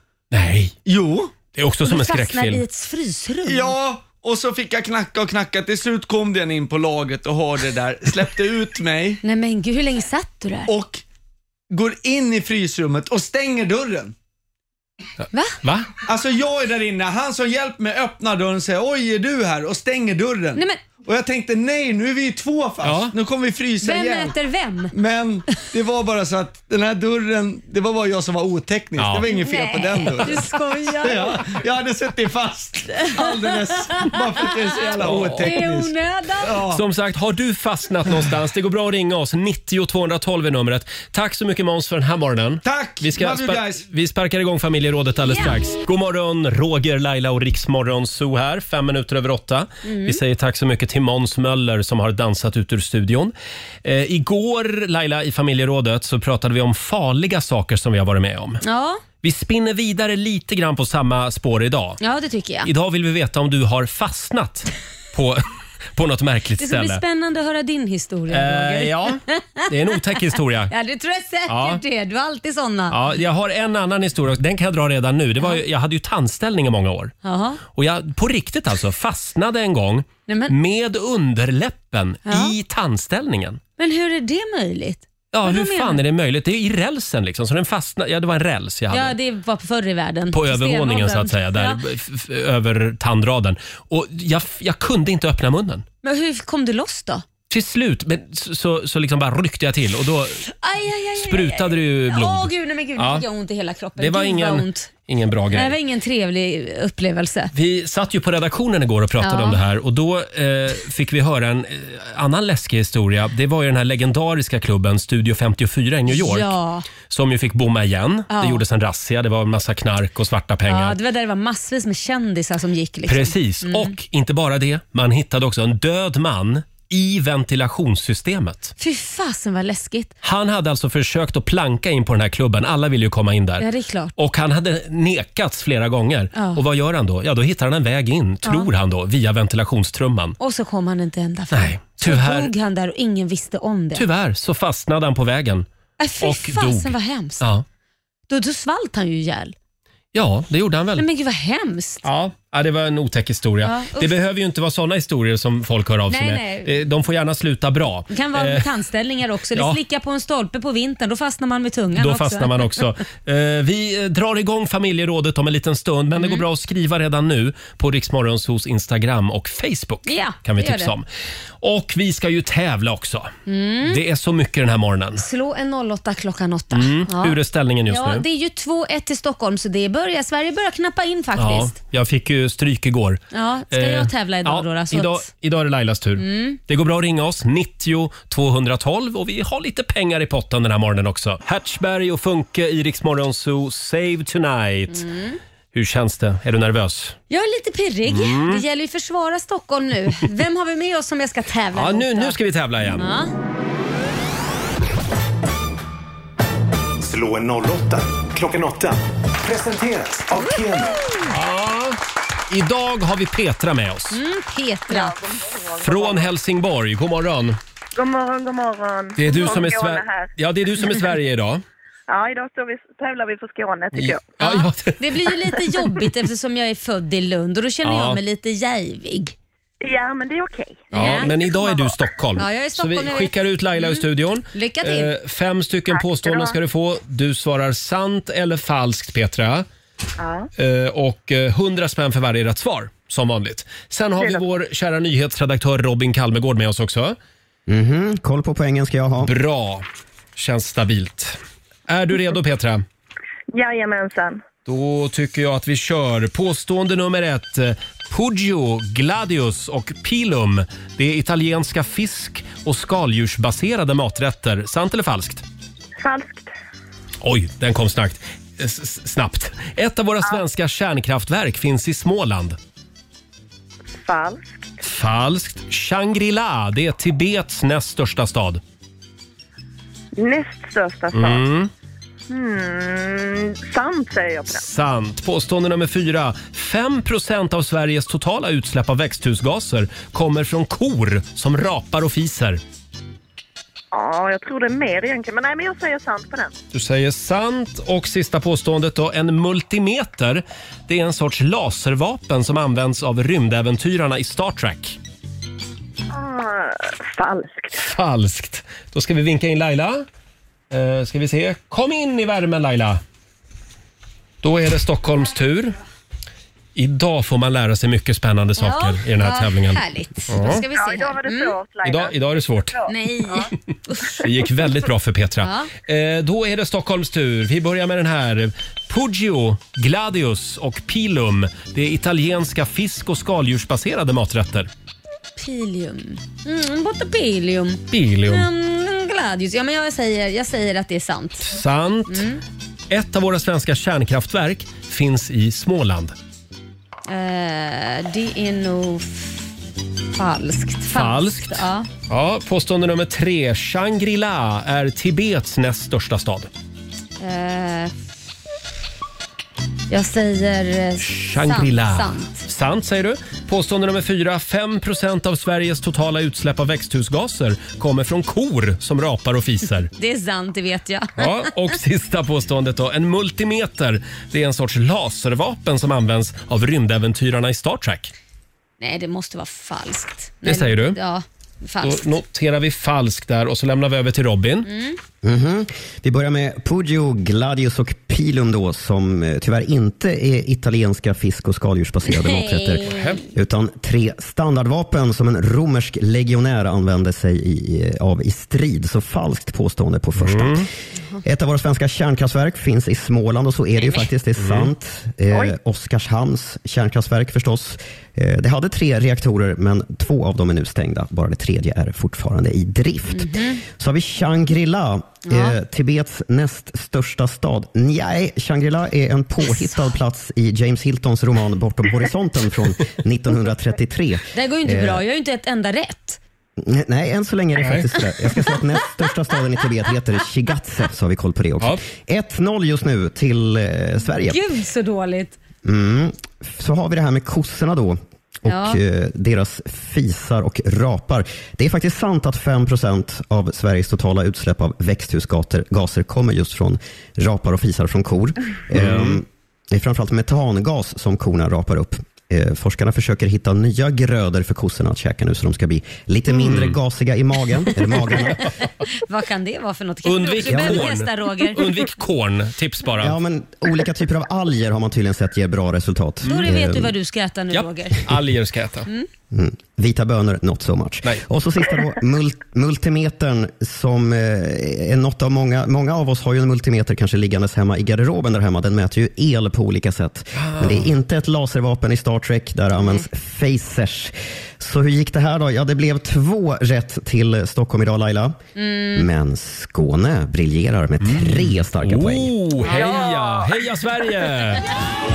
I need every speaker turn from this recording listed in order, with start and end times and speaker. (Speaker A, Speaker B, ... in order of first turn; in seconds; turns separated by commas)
Speaker A: 0.3-0.8, Speaker B: 0.8-1.3, Speaker A: 1.5-2.6, Speaker C: 1.8-3.8, Speaker B: 3.5-9.2, Speaker C: 9.2-10.7, Speaker B: 10.7-11.0, Speaker B: 11.7-14.1, Speaker A: 15.6-15.9, Speaker B: 16.1-24.4, Speaker A: 22.8-23.1, Speaker C: 23.8-24.9, Speaker B: 24.9-36.8, Speaker A: 29.0-29.3, Speaker C: 29.2-31.4, Speaker C: 33.0-36.6, Speaker A: 35.0-35.6, Speaker A: 36.7-53.3, Speaker B: 42.6-43.8, Speaker C: 45.3-45.6, Speaker C: 49.9-50.2, Speaker A: 53.8-58.6, Speaker C: 58.6-59.0, Speaker A: 59.2-62.0, Speaker C: 62.0-62.7, Speaker A: 62.6-67.0, Speaker C: 66.6-70.2, Speaker A: 68.3-70.7, Speaker C: 70.7-73.0, Speaker A: 71.5-71.8, Speaker A: 72.9-77.1, Speaker C: 77.2-77.6, Speaker A: 77.7-83.6, Speaker C: 80.3-80.5, Speaker C: 82.3-82.5, Speaker C: 83.8-86.0, Speaker A: 85.3-89.1, Speaker C: 88.9-91.8, Speaker A: 90.3-95.8, Speaker C: 96.0-97.3, Speaker A: 97.5-100.4, Speaker C: 100.6-104.9, Speaker A: 101.2-103.3, Speaker A: 104.0-105.8, Speaker C: 105.5-107.5, Speaker A: 107.5-116.5, Speaker C: 109.2-109.6, Speaker C: 116.1-116.9, Speaker A: 117.1-121.0, Speaker C: 118.3-118.6, Speaker C: 120.7-123.9, Speaker A: 123.1-128.8, Speaker C: 128.8-130.1, Speaker A: 130.2-140.4, Speaker C: 133.6-134.1, Speaker C: 136.3-136.6, Speaker C: 140.4-144.1, Speaker A: 141.5-142.5, Speaker A: 143.9-145.7, Speaker C: 146.0-147.4, Speaker A: 146.2-147.6, Speaker C: 148.3-149.6, Speaker A: 150.1-151.1, Speaker C: 151.0-152.1, Speaker A: 152.0-158.7, Speaker C: 153.6-154.1, Speaker C: 156.1-156.8, Speaker C: 158.1-162.8, Speaker A: 159.5-159.8, Speaker A: 161.9-171.1, Speaker C: 166.2-166.4, Speaker C: 170.1-170.9, Speaker A: 171.6-173.3, Speaker C: 173.5-174.0, Speaker A: 173.8-175.3, Speaker C: 175.2-177.4, Speaker A: 176.7-178.2, Speaker C: 177.9-181.7, Speaker A: 181.4-195.0, Speaker C: 183.3-185.3, Speaker C: 186.2-186.6, Speaker C: 194.9-195.4, Speaker A: 195.7-197.2, Speaker C: 197.3-202.4, Speaker A: 198.1-198.6, Speaker A: 201.7-203.1, Speaker C: 202.9-203.3, Speaker D: 207.0-211.1, Speaker A: 211.2-214.2, Speaker C: 214.1-215.2, Speaker E: 214.9-216.3, Speaker A: 215.8-217.6, Speaker E: 217.9-220.3, Speaker A: 219.2-221.6, Speaker E: 222.1-224.3, Speaker A: 223.9-225.0, Speaker C: 224.4-229.3, Speaker A: 227.8-228.2, Speaker E: 229.8-231.8, Speaker A: 230.9-239.7, Speaker C: 230.9-231.4, Speaker C: 232.4-235.1, Speaker E: 235.9-236.6, Speaker E: 240.2-240.5, Speaker A: 240.6-247.2, Speaker F: 247.7-249.3, Speaker A: 249.2-249.8, Speaker A: 250.4-252.8, Speaker E: 253.5-254.4, Speaker A: 254.7-265.4, Speaker E: 266.0-266.5, Speaker A: 267.2-272.6, Speaker E: 273.9-274.7, Speaker A: 274.8-278.6, Speaker E: 280.1-281.4, Speaker A: 281.1-281.7, Speaker E: 282.3-284.6, Speaker A: 284.5-292.6, Speaker E: 293.9-296.5, Speaker A: 296.7-305.0, Speaker E: 306.1-307.7, Speaker A: 307.7-310.1, Speaker A: 310.7-313.0, Speaker A: 314.4-315.8, Speaker A: 316.8-320.7, Speaker C: 318.6-321.6, Speaker E: 320.6-323.4, Speaker A: 321.8-322.8, Speaker C: 322.9-324.2, Speaker A: 324.1-334.7, Speaker C: 325.4-325.7, Speaker C: 335.4-342.4, Speaker A: 337.9-338.5, Speaker A: 341.4-342.3, Speaker A: 342.9-346.1, Speaker C: 347.1-349.5, Speaker C: 350.1-351.9, Speaker A: 350.9-356.5, Speaker C: 357.2-357.9, Speaker C: 359.9-362.5, Speaker A: 361.0-369.9, Speaker C: 369.9-371.5, Speaker A: 371.2-378.1, Speaker C: 378.8-382.1, Speaker A: 380.4-381.0, Speaker A: 381.8-384.7, Speaker C: 384.6-385.0, Speaker F: 385.2-400.7, Speaker C: 392.1-393.2, Speaker A: 392.8-393.2, Speaker A: 400.2-400.7, Speaker F: 401.2-425.0, Speaker A: 404.4-404.7, Speaker C: 413.1-413.6, Speaker C: 415.3-415.6, Speaker C: 419.5-419.8, Speaker C: 424.3-426.2, Speaker F: 426.6-434.4, Speaker A: 427.6-427.9, Speaker C: 434.3-435.4, Speaker F: 435.6-458.4, Speaker C: 438.5-438.8, Speaker A: 448.7-449.2, Speaker A: 456.3-456.8, Speaker C: 458.9-461.7, Speaker A: 460.1-463.2, Speaker F: 460.5-460.8, Speaker F: 463.0-466.9, Speaker C: 466.2-468.1, Speaker A: 466.3-466.5, Speaker A: 467.5-468.9, Speaker F: 469.3-488.4, Speaker A: 480.4-480.9, Speaker C: 488.6-489.1, Speaker F: 488.9-492.4, Speaker A: 491.0-494.7, Speaker E: 492.6-493.6